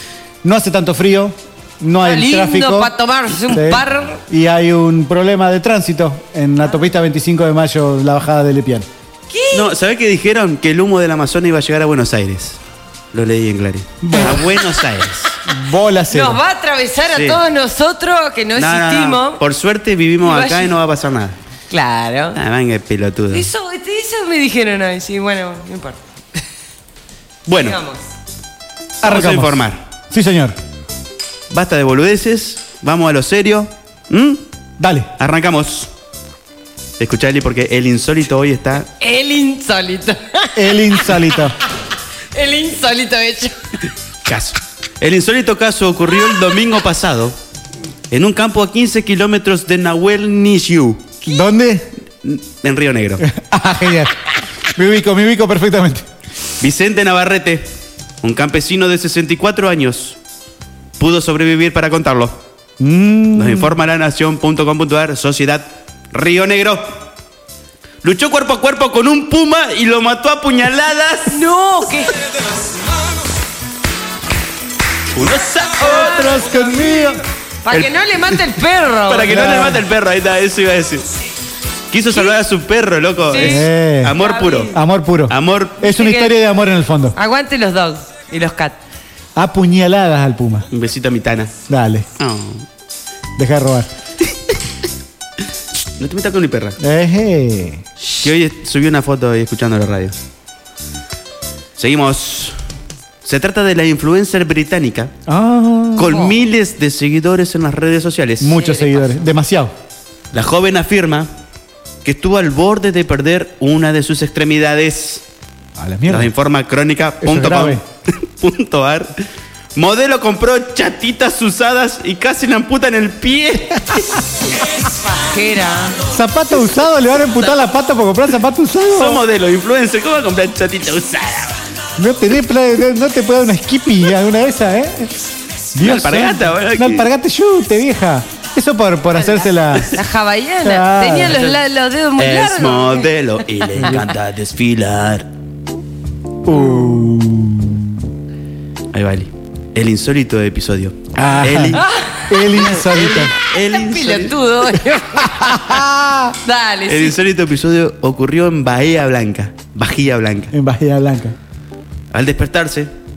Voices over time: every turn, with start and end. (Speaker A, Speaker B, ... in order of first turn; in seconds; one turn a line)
Speaker A: 0.4-2.9
Speaker B: 2.0-4.2
Speaker A: 3.5-8.9
Speaker B: 9.3-9.7
Speaker C: 9.5-12.6
Speaker C: 13.1-15.3
Speaker A: 14.0-14.5
Speaker A: 15.4-16.4
Speaker B: 16.1-19.4
Speaker C: 17.1-17.4
Speaker C: 18.6-21.4
Speaker B: 20.2-20.7
Speaker B: 21.7-22.4
Speaker C: 22.3-23.5
Speaker B: 23.3-26.0
Speaker C: 27.4-27.8
Speaker B: 27.6-28.1
Speaker A: 29.0-30.6
Speaker C: 29.0-29.8
Speaker C: 31.5-34.4
Speaker A: 34.8-35.1
Speaker C: 35.2-35.9
Speaker C: 37.0-38.9
Speaker B: 39.0-41.5
Speaker A: 40.5-41.5
Speaker B: 42.3-43.5
Speaker C: 44.2-47.4
Speaker C: 48.1-51.0
Speaker A: 51.2-51.9
Speaker C: 52.2-53.3
Speaker A: 53.2-54.2
Speaker A: 54.7-56.1
Speaker C: 56.6-57.7
Speaker C: 58.2-60.2
Speaker C: 61.0-62.4
Speaker A: 62.8-63.7
Speaker C: 63.3-67.0
Speaker C: 68.0-71.4
Speaker B: 71.3-72.1
Speaker C: 75.1-76.5
Speaker B: 75.8-76.4
Speaker A: 75.9-77.2
Speaker B: 77.6-79.7
Speaker C: 77.7-78.4
Speaker C: 79.1-81.1
Speaker A: 79.3-79.8
Speaker C: 81.9-84.7
Speaker B: 83.3-84.8
Speaker A: 83.4-84.2
Speaker A: 84.7-87.1
Speaker C: 85.3-85.8
Speaker B: 85.8-86.4
Speaker B: 87.1-88.8
Speaker A: 89.3-90.7
Speaker C: 90.7-91.5
Speaker A: 91.7-92.1
Speaker C: 92.2-92.7
Speaker A: 93.4-93.9
Speaker C: 96.0-96.8
Speaker A: 96.8-97.8
Speaker C: 98.2-100.1
Speaker C: 101.8-102.5
Speaker C: 103.2-105.1
Speaker A: 105.3-106.2
Speaker C: 106.0-108.6
Speaker A: 108.4-109.7
Speaker B: 108.5-109.2
Speaker C: 110.3-111.3
Speaker C: 112.0-115.2
Speaker A: 115.8-116.3
Speaker C: 116.1-119.2
Speaker A: 117.2-117.8
Speaker C: 119.8-124.2
Speaker B: 124.7-126.0
Speaker A: 126.1-129.2
Speaker C: 128.9-131.6
Speaker A: 132.0-135.1
Speaker A: 135.7-139.9
Speaker C: 135.8-137.1
Speaker B: 139.1-143.1
Speaker A: 140.6-141.4
Speaker C: 141.3-141.6
Speaker C: 142.2-145.3
Speaker A: 146.4-148.1
Speaker C: 148.9-151.8
Speaker A: 151.1-153.3
Speaker B: 151.8-152.2
Speaker C: 152.6-154.4
Speaker B: 153.7-155.8
Speaker A: 155.3-156.3
Speaker B: 156.4-157.2
Speaker C: 156.9-160.5
Speaker A: 160.5-161.3
Speaker C: 162.1-162.9